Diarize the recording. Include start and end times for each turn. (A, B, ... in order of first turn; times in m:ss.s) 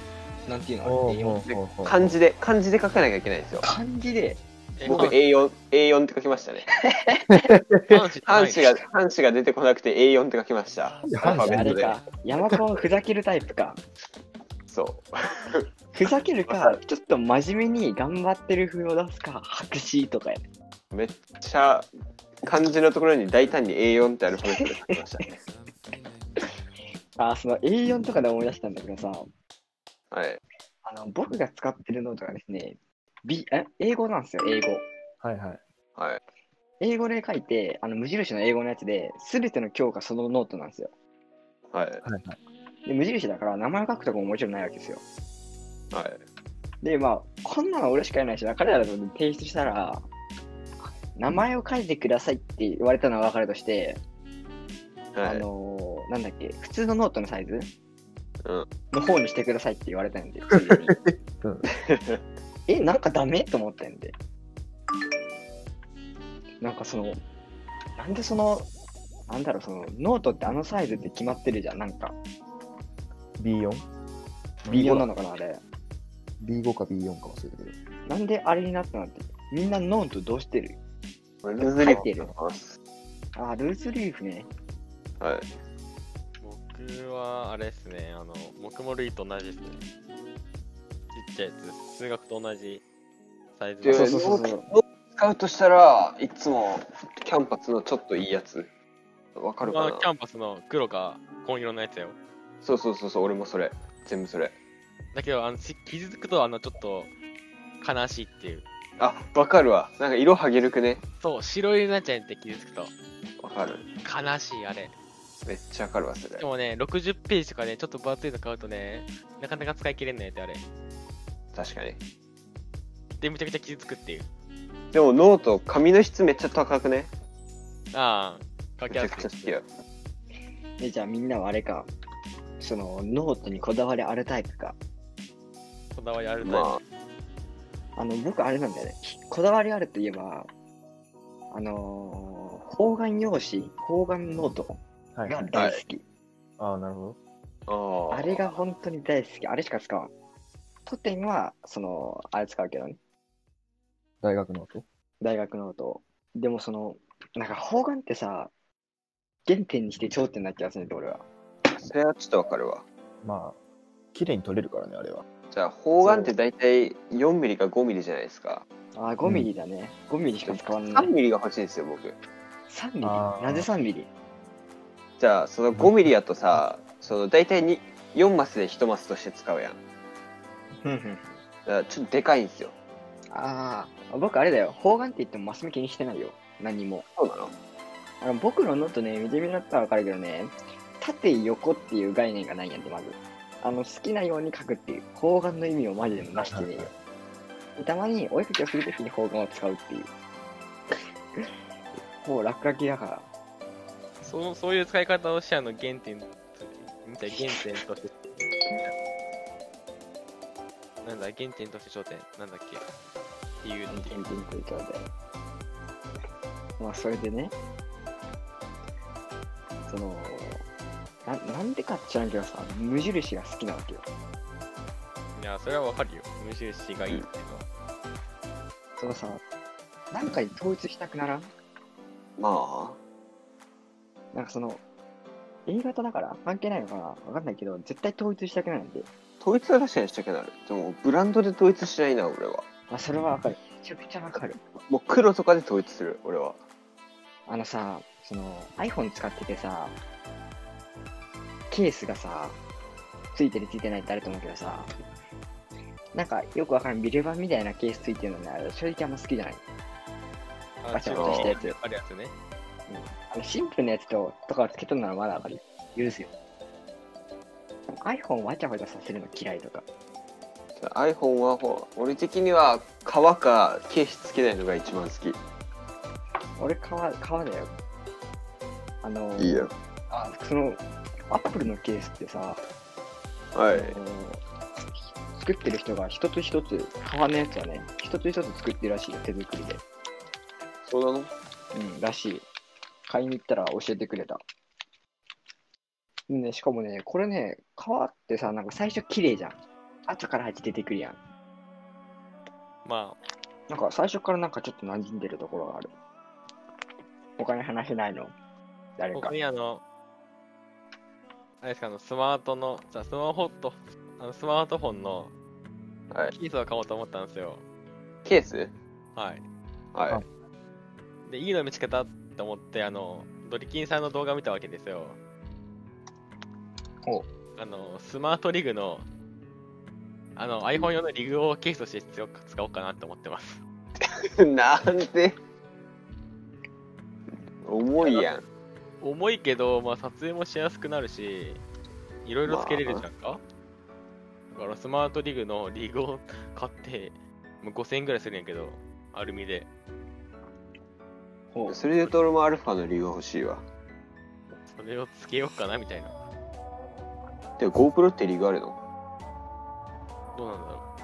0:00.4-0:01.4 A
0:00.8-0:02.2 B
0:01.4-0:03.7 C
0:03.6-0:05.1 A
0:04.8-0:05.1 D
0:04.8-0:06.7 C
0:06.9-0:07.4 A
0:07.3-0:08.0 B
0:07.8-0:08.8 D
0:08.2-0:12.0 C
0:11.0-0:11.7 B
0:11.2-0:13.8 A
0:14.7-0:15.7 C
0:15.9-0:20.4 A
0:16.5-0:16.8 C
0:20.9-0:21.9 C
0:22.4-0:25.3 C
0:27.2-0:29.3 A
0:30.1-0:30.4 C
0:30.8-0:34.8 A
0:35.2-0:35.6 B
0:36.0-0:36.2 C
0:36.8-0:40.9 A
0:41.7-0:42.0 C
0:42.0-0:42.4 B
0:42.8-0:45.0 A
0:45.9-0:46.2 C
0:46.8-0:50.1 A
0:51.1-0:54.0 A
0:55.1-0:55.4 C
0:55.2-0:57.7 A
0:58.9-1:01.0 A
1:00.6-1:01.6 B
1:01.7-1:02.2 C
1:02.7-1:04.1 A
1:06.6-1:07.2 A
1:08.0-1:08.7 A
1:09.3-1:12.2 A
1:13.4-1:13.8 B
1:14.6-1:15.1 B
1:14.7-1:15.6 A
1:16.4-1:17.8 B
1:18.0-1:20.8 A
1:21.4-1:22.8 C
1:21.6-1:22.3 A
1:23.3-1:24.5 A
1:25.2-1:25.5 C
1:26.4-1:29.8 D
1:31.1-1:32.8 D
1:33.6-1:34.1 D
1:33.8-1:38.7 C
1:33.9-1:34.7 A
1:39.4-1:40.1 C
1:39.6-1:42.2 D
1:42.6-1:44.6 C
1:45.1-1:47.1 D
1:47.8-1:48.6 D
1:49.0-1:51.0 C
1:51.2-1:52.9 D
1:53.4-1:53.8 C
1:54.0-1:54.9 D
1:55.4-1:56.4 C
1:56.4-2:00.6 D
2:01.5-2:02.0 C
2:03.2-2:04.3 D
2:04.9-2:07.1 C
2:07.9-2:09.5 D
2:08.9-2:09.6 C
2:10.8-2:11.9 A
2:12.6-2:14.8 A
2:15.9-2:16.8 D
2:16.4-2:16.8 C
2:18.0-2:20.5 A
2:21.5-2:24.8 A
2:25.2-2:25.5 B
2:25.3-2:26.0 A
2:25.5-2:25.8 C
2:26.6-2:27.2 B
2:27.7-2:28.4 C
2:28.1-2:30.1 A
2:30.8-2:33.0 A
2:34.2-2:34.8 B
2:35.2-2:38.5 A
2:39.4-2:41.2 A
2:41.8-2:42.8 C
2:43.2-2:43.6 B
2:44.1-2:45.2 B
2:45.5-2:48.6 C
2:48.9-2:51.1 A
2:50.4-2:52.2 C
2:52.7-2:54.1 A
2:53.0-2:53.7 B
2:55.2-2:59.8 C
2:55.7-2:56.1 B
3:00.8-3:01.3 A
3:01.6-3:02.7 C
3:03.3-3:07.1 A
3:07.2-3:07.5 C
3:08.2-3:16.9 A
3:16.4-3:16.9 B
3:17.8-3:20.1 A
3:22.2-3:23.3 A
3:24.2-3:28.4 D
3:27.3-3:27.6 A
3:31.0-3:32.8 D
3:33.6-3:34.2 D
3:33.9-3:35.1 A
3:36.8-3:37.5 A
3:39.9-3:40.6 A
3:41.2-3:44.0 A
3:45.3-3:47.7 D
3:49.0-3:49.4 A
3:50.1-3:51.5 A
3:52.4-3:53.0 C
3:54.3-3:54.8 A
3:55.6-3:59.1 A
3:59.4-4:02.6 C
4:02.9-4:04.6 A
4:04.8-4:06.6 C
4:07.5-4:10.0 A
4:11.7-4:12.6 A
4:13.3-4:14.9 A
4:16.1-4:19.6 A
4:20.8-4:22.3 D
4:20.9-4:21.8 A
4:21.1-4:21.5 C
4:22.9-4:26.3 A
4:28.0-4:29.8 A
4:30.8-4:35.4 C
4:36.6-4:37.7 A
4:39.0-4:42.6 A
4:39.4-4:39.7 C
4:43.5-4:44.0 C
4:43.7-4:44.4 A
4:45.3-4:49.8 A
4:50.8-4:51.3 C
4:51.7-4:52.5 A
4:53.1-4:54.4 A
4:56.3-4:59.6 A
5:00.1-5:01.2 A
5:02.8-5:03.2 D
5:03.7-5:05.9 A
5:07.4-5:08.3 A
5:09.0-5:09.3 A
5:09.1-5:09.8 D
5:11.6-5:15.3 D
5:16.3-5:17.6 D
5:18.2-5:18.7 C
5:19.2-5:19.4 D
5:19.9-5:20.2 C
5:21.2-5:25.2 D
5:27.6-5:29.0 D
5:30.4-5:33.6 D
5:34.0-5:35.4 C
5:37.6-5:38.4 C
5:38.0-5:38.3 D
5:39.0-5:41.6 D
5:42.2-5:43.4 D
5:42.5-5:43.0 C
5:44.5-5:49.7 D
5:51.5-5:51.8 A
5:51.7-5:53.6 C
5:54.6-5:56.1 D
5:57.6-5:58.8 C
6:00.3-6:00.8 D